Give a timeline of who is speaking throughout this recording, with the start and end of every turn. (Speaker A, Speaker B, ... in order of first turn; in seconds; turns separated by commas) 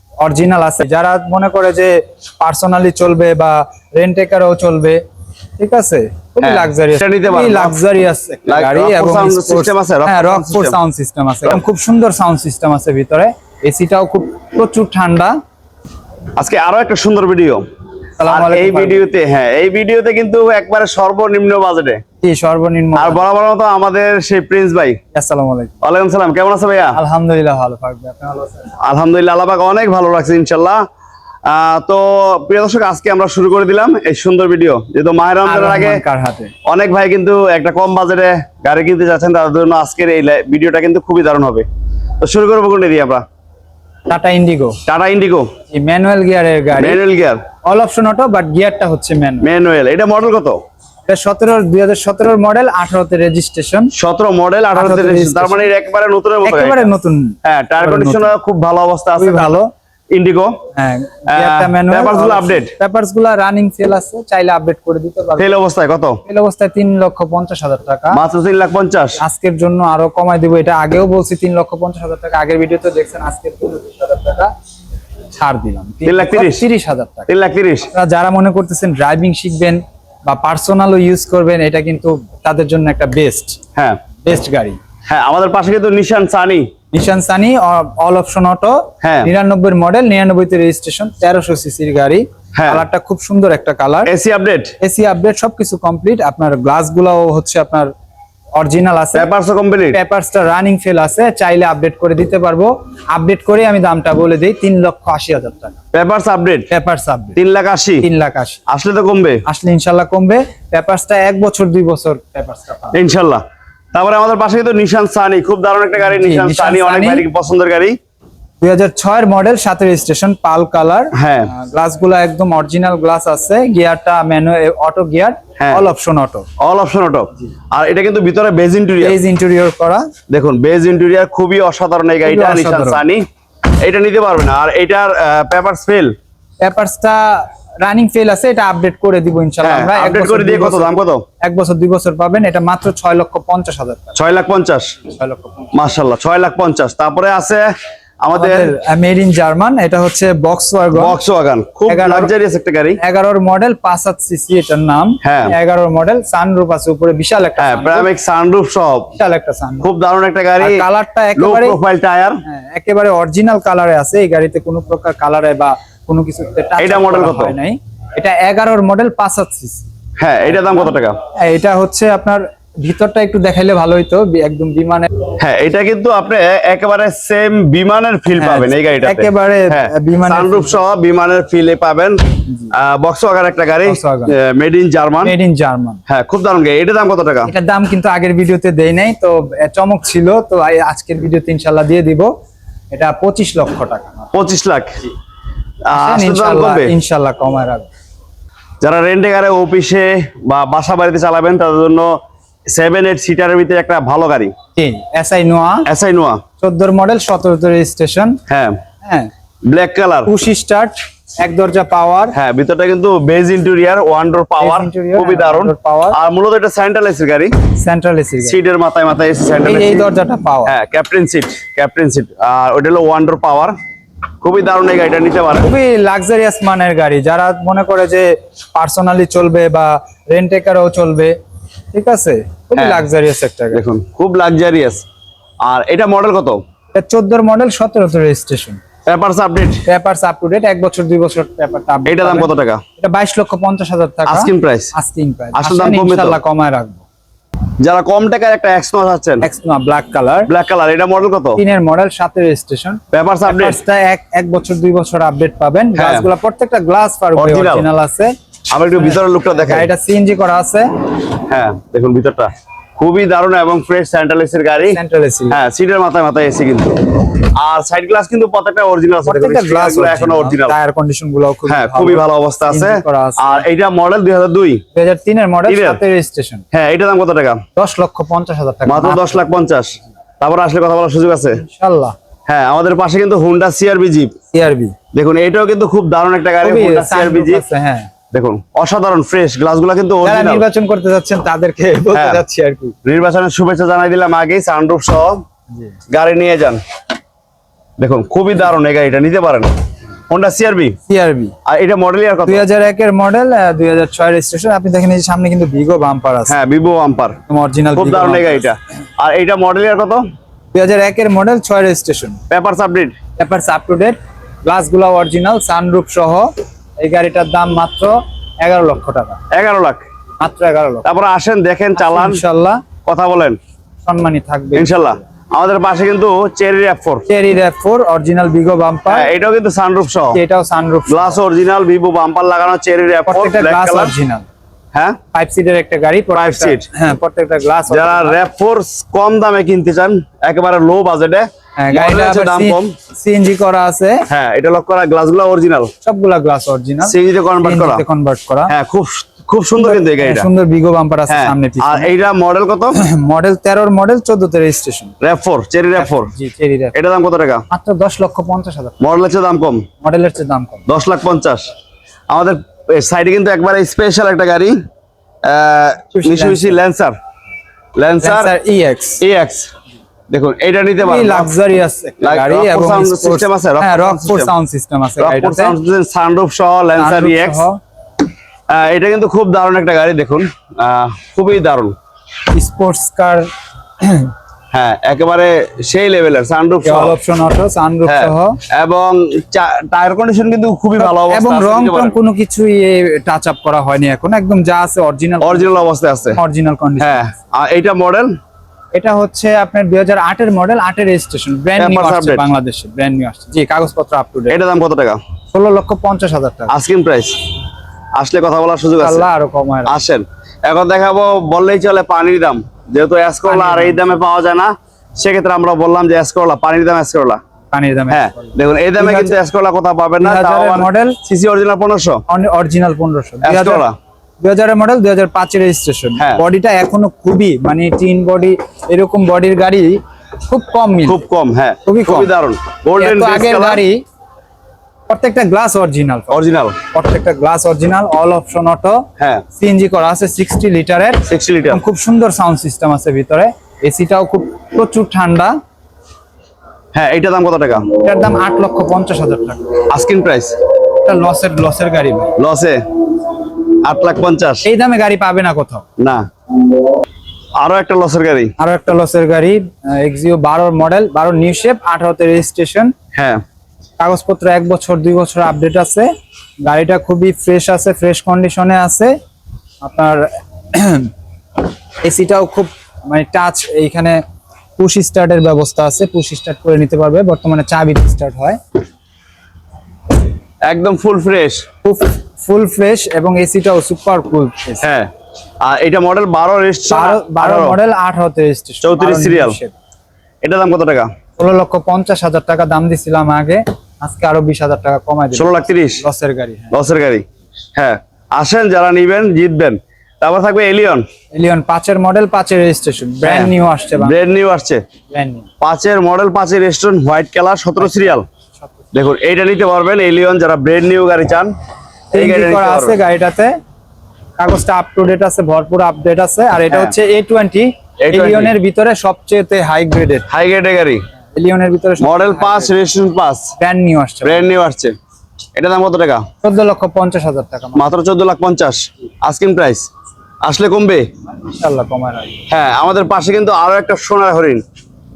Speaker A: 0.2-5.0, Speaker A: 5.6-15.4, Speaker B: 6.4-7.8, Speaker B: 8.5-10.8, Speaker B: 16.4-17.6, Speaker A: 18.2-19.1, Speaker B: 18.3-22.0, Speaker A: 22.2-23.2, Speaker B: 23.0-25.0, Speaker A: 25.1-25.7, Speaker B: 25.8-27.0, Speaker A: 26.9-28.7, Speaker B: 28.8-30.8, Speaker B: 31.5-36.0, Speaker A: 35.4-36.5, Speaker B: 36.7-41.7, Speaker B: 42.2-43.2, Speaker A: 44.1-44.8, Speaker B: 44.9-45.5, Speaker A: 45.7-47.0, Speaker B: 46.8-47.4, Speaker A: 47.7-49.5, Speaker B: 49.4-50.6, Speaker A: 51.1-53.9, Speaker B: 54.0-56.9, Speaker A: 54.8-55.7, Speaker A: 56.4-58.4, Speaker B: 57.4-59.5, Speaker A: 59.2-59.7, Speaker B: 60.1-60.6, Speaker A: 60.8-65.5, Speaker B: 61.3-62.7, Speaker B: 65.4-66.2, Speaker A: 66.2-68.2, Speaker B: 68.1-69.2, Speaker A: 69.2-74.5, Speaker A: 75.3-77.3, Speaker B: 76.0-76.7, Speaker B: 77.3-77.9, Speaker A: 77.9-83.6, Speaker A: 84.2-84.8, Speaker B: 85.1-86.7, Speaker A: 86.9-94.1, Speaker B: 89.0-89.3, Speaker B: 92.6-92.9, Speaker B: 94.1-94.8, Speaker A: 94.8-97.9, Speaker A: 98.5-99.3, Speaker B: 99.2-100.0, Speaker A: 99.9-105.8, Speaker B: 105.9-106.7, Speaker A: 106.7-107.4, Speaker B: 107.4-108.1, Speaker A: 108.0-108.6, Speaker B: 108.7-109.4, Speaker A: 109.5-113.0, Speaker B: 112.9-113.4, Speaker B: 113.9-118.0, Speaker A: 116.0-117.3, Speaker A: 118.6-126.5, Speaker B: 121.1-121.5, Speaker B: 125.6-125.9, Speaker B: 126.6-129.2, Speaker A: 129.0-130.1, Speaker B: 130.3-136.1, Speaker A: 132.2-133.0, Speaker A: 136.6-144.2, Speaker B: 139.6-141.2, Speaker B: 144.2-144.9, Speaker A: 145.1-145.7, Speaker B: 145.7-147.7, Speaker B: 148.2-148.7, Speaker A: 148.3-151.2, Speaker B: 150.9-153.0, Speaker A: 151.9-152.3, Speaker A: 153.0-158.1, Speaker B: 155.2-155.5, Speaker B: 157.6-159.1, Speaker A: 159.2-159.9, Speaker B: 159.8-160.8, Speaker A: 160.6-161.8, Speaker B: 161.4-162.4, Speaker A: 162.5-169.8, Speaker B: 166.8-167.6, Speaker B: 170.2-171.2, Speaker A: 170.5-175.1, Speaker B: 175.4-185.4, Speaker A: 178.4-180.8, Speaker A: 183.8-184.3, Speaker A: 185.2-186.0, Speaker B: 186.1-187.5, Speaker A: 187.5-192.3, Speaker A: 192.9-194.3, Speaker B: 194.3-195.0, Speaker B: 195.9-196.9, Speaker A: 195.9-197.9, Speaker B: 198.8-202.2, Speaker B: 202.7-204.5, Speaker A: 204.8-205.9, Speaker B: 205.9-206.4, Speaker A: 206.6-208.4, Speaker B: 208.5-208.8, Speaker A: 209.0-209.3, Speaker B: 209.7-210.3, Speaker A: 210.3-212.3, Speaker B: 212.3-217.5, Speaker A: 214.6-216.2, Speaker A: 217.8-218.6, Speaker B: 218.4-220.1, Speaker A: 219.6-220.8, Speaker B: 220.7-223.8, Speaker B: 224.4-225.7, Speaker A: 225.6-231.3, Speaker A: 231.9-233.8, Speaker B: 232.8-233.1, Speaker B: 233.7-235.0, Speaker B: 235.6-236.6, Speaker A: 236.9-238.8, Speaker B: 239.1-239.8, Speaker A: 239.9-247.1, Speaker B: 242.1-242.8, Speaker B: 244.3-244.9, Speaker B: 245.6-246.4, Speaker B: 247.8-249.5, Speaker A: 249.4-250.5, Speaker B: 250.5-251.6, Speaker A: 251.6-258.3, Speaker B: 253.1-253.8, Speaker B: 256.0-256.3, Speaker B: 257.4-257.9, Speaker B: 258.7-259.9, Speaker A: 259.0-260.9, Speaker B: 261.5-265.0, Speaker A: 264.9-265.6, Speaker B: 265.5-270.8, Speaker A: 269.2-273.6, Speaker B: 271.7-274.8, Speaker A: 274.9-276.6, Speaker B: 275.7-276.0, Speaker B: 276.7-277.6, Speaker A: 277.8-279.4, Speaker B: 278.9-281.6, Speaker A: 281.6-282.1, Speaker B: 282.5-284.4, Speaker A: 284.5-284.9, Speaker B: 285.1-287.6, Speaker A: 286.6-288.1, Speaker B: 288.3-290.6, Speaker A: 290.2-292.9, Speaker B: 292.1-292.4, Speaker B: 293.1-295.4, Speaker B: 296.1-296.8, Speaker B: 298.0-299.7, Speaker B: 300.3-301.0, Speaker A: 301.1-301.5, Speaker B: 301.7-302.6, Speaker A: 302.5-306.6, Speaker B: 306.5-307.4, Speaker A: 307.5-308.7, Speaker B: 308.0-310.2, Speaker A: 310.7-312.4, Speaker B: 312.5-313.2, Speaker A: 313.4-319.4, Speaker B: 319.5-320.1, Speaker A: 320.4-321.1, Speaker B: 321.0-322.4, Speaker A: 322.0-322.8, Speaker B: 323.1-323.6, Speaker A: 324.1-325.1, Speaker B: 324.8-327.2, Speaker A: 327.3-329.3, Speaker B: 329.1-330.4, Speaker A: 330.3-331.4, Speaker B: 331.1-334.1, Speaker A: 333.3-334.5, Speaker A: 335.3-338.4, Speaker B: 336.3-336.9, Speaker B: 337.9-342.9, Speaker A: 341.8-344.3, Speaker B: 344.3-345.9, Speaker A: 346.0-348.7, Speaker B: 347.1-348.0, Speaker B: 348.7-350.5, Speaker A: 349.8-352.1, Speaker B: 351.3-353.0, Speaker A: 352.9-355.1, Speaker B: 355.2-356.3, Speaker A: 356.0-356.9, Speaker B: 356.9-357.6, Speaker A: 357.7-359.0, Speaker B: 359.0-359.9, Speaker A: 360.0-360.9, Speaker B: 360.9-361.7, Speaker B: 362.3-364.8, Speaker B: 365.4-367.2, Speaker A: 366.1-366.8, Speaker B: 368.0-368.5, Speaker A: 368.2-369.2, Speaker B: 369.2-369.7, Speaker B: 370.3-371.5, Speaker A: 371.0-375.8, Speaker B: 372.2-374.5, Speaker B: 375.2-377.6, Speaker A: 377.0-377.8, Speaker B: 378.7-382.0, Speaker A: 382.5-383.5, Speaker A: 384.0-384.3, Speaker B: 384.7-387.2, Speaker A: 386.8-388.6, Speaker B: 388.1-392.2, Speaker A: 391.0-395.7, Speaker B: 395.4-396.4, Speaker A: 396.4-397.3, Speaker B: 397.0-398.3, Speaker A: 398.9-404.6, Speaker B: 401.8-402.5, Speaker B: 404.5-405.2, Speaker A: 405.5-406.7, Speaker B: 406.7-407.4, Speaker B: 408.2-409.3, Speaker A: 409.0-409.9, Speaker B: 409.9-417.4, Speaker A: 413.5-414.0, Speaker A: 417.7-419.4, Speaker B: 418.1-422.2, Speaker A: 420.2-421.2, Speaker A: 422.3-423.8, Speaker B: 423.4-423.9, Speaker A: 424.4-431.2, Speaker B: 431.1-433.8, Speaker A: 431.9-432.3, Speaker A: 433.0-434.0, Speaker A: 435.1-436.4, Speaker B: 436.3-436.8, Speaker A: 436.9-445.6, Speaker B: 439.2-439.4, Speaker B: 441.3-441.8, Speaker B: 446.9-447.9, Speaker A: 448.0-449.8, Speaker B: 449.9-450.6, Speaker A: 451.1-452.4, Speaker B: 452.4-452.8, Speaker B: 453.8-454.7, Speaker A: 454.6-455.9, Speaker B: 456.0-456.2, Speaker B: 457.6-458.5, Speaker A: 458.6-462.9, Speaker B: 463.1-463.4, Speaker A: 464.0-466.1, Speaker A: 466.6-469.1, Speaker A: 469.8-471.1, Speaker A: 472.0-474.2, Speaker A: 474.8-478.6, Speaker B: 480.6-481.6, Speaker A: 481.9-484.8, Speaker B: 484.8-485.1, Speaker B: 485.6-487.8, Speaker A: 486.9-489.7, Speaker B: 488.8-489.6, Speaker B: 490.4-491.1, Speaker A: 491.4-496.8, Speaker B: 495.3-496.0, Speaker B: 496.7-497.2, Speaker B: 497.8-501.1, Speaker A: 501.3-504.2, Speaker B: 503.2-504.8, Speaker A: 505.1-505.5, Speaker B: 505.6-508.3, Speaker A: 507.8-508.7, Speaker B: 508.9-511.6, Speaker A: 512.1-513.6, Speaker B: 512.1-513.0, Speaker A: 514.4-520.3, Speaker B: 518.0-518.5, Speaker B: 520.3-521.0, Speaker A: 521.4-522.7, Speaker B: 522.0-523.5, Speaker A: 523.6-524.5, Speaker B: 524.2-525.0, Speaker B: 525.6-526.3, Speaker A: 526.4-527.9, Speaker B: 527.8-529.9, Speaker B: 530.4-531.1, Speaker A: 531.5-532.4, Speaker B: 532.5-534.6